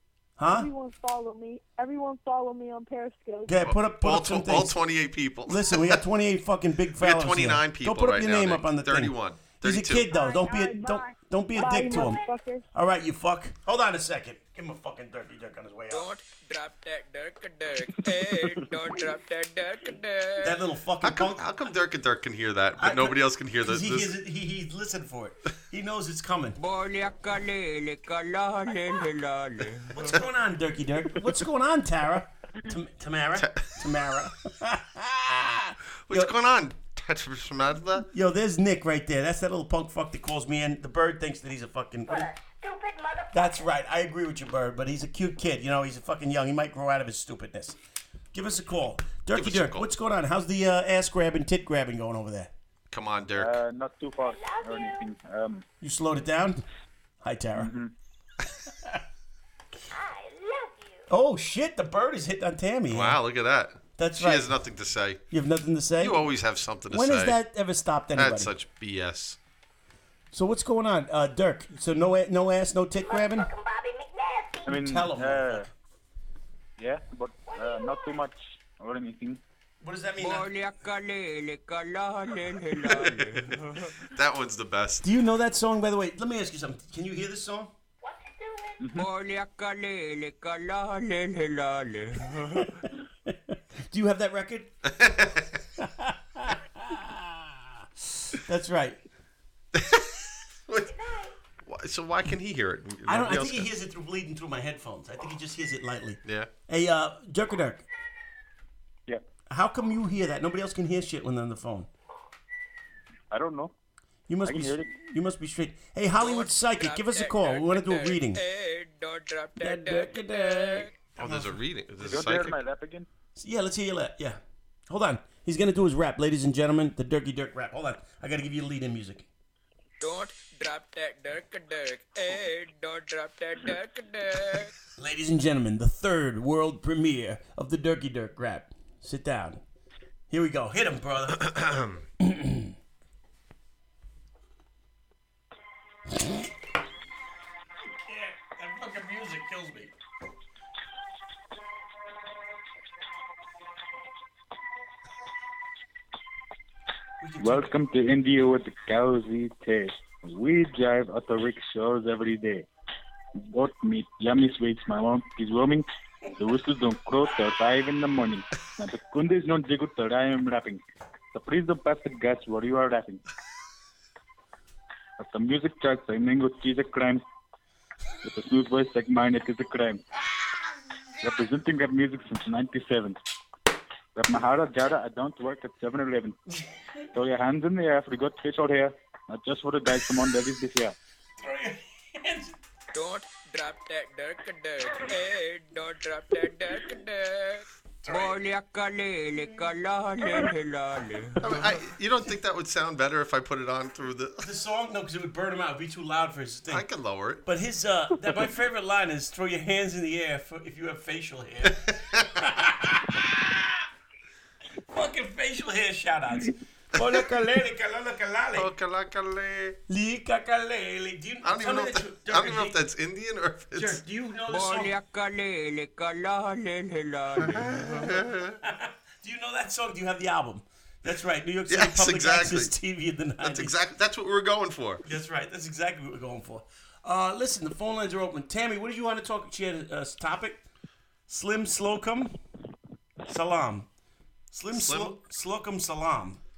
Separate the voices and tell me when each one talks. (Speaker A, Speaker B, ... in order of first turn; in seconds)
Speaker A: 0.4-0.7, 3.5-4.8, 5.5-12.2, 12.7-16.1, 20.4-21.4, 22.8-26.6, 29.9-36.3, 38.1-42.3, 43.3-47.8, 48.3-52.5, 55.8-56.6, 57.2-57.7, 61.1-63.2, 64.0-64.6, 65.3-66.2, 66.9-68.5, 70.3-73.5, 74.8-75.7, 79.8-80.5, 85.0-87.7, 92.5-95.1, 95.8-97.6, 98.2-99.0, 103.0-107.9, 109.5-111.9, 114.3-118.4, 119.6-121.6, 123.3-129.3, 135.0-139.6, 140.3-141.5, 142.2-142.7, 147.8-149.9, 157.2-157.7, 191.4-192.6, 201.4-201.8, 204.4-206.8, 207.4-213.8, 214.9-218.7, 219.9-222.8, 223.7-224.9, 227.5-233.8, 235.0-240.6, 241.3-242.3, 243.3-243.9, 244.5-246.4
Speaker B: 0.4-3.6, 10.1-12.6
Speaker C: 3.6-6.0, 7.0-10.1, 21.0-24.1, 33.4-33.8, 36.1-38.1, 49.3-49.9, 52.9-53.5, 62.9-65.2, 66.0-67.4, 68.1-69.4, 82.8-85.0, 94.8-95.5, 99.7-100.9, 101.6-103.7, 106.2-106.5, 121.2-122.6, 141.4-142.0, 201.4-204.4, 206.7-207.4, 218.5-219.8, 221.4-224.0, 227.4-228.6, 231.7-232.7, 233.4-235.0, 244.7-245.2
Speaker D: 15.9-20.5, 26.6-30.0, 80.2-83.9, 89.0-92.7, 116.2-120.9, 130.0-134.7, 192.9-201.5, 224.5-227.7
Speaker E: 42.1-43.7, 54.2-55.1, 59.9-61.1, 73.0-74.8, 77.5-78.2, 88.0-88.8, 100.8-101.3
Speaker F: 53.3-55.6, 57.5-57.9, 74.7-75.7, 76.8-79.4, 88.8-89.0, 113.3-113.7, 114.4-114.9, 122.0-123.1, 157.4-162.7, 163.4-170.8, 171.3-173.2, 175.2-177.2, 178.2-180.0, 181.2-183.2, 184.2-186.4, 187.1-190.9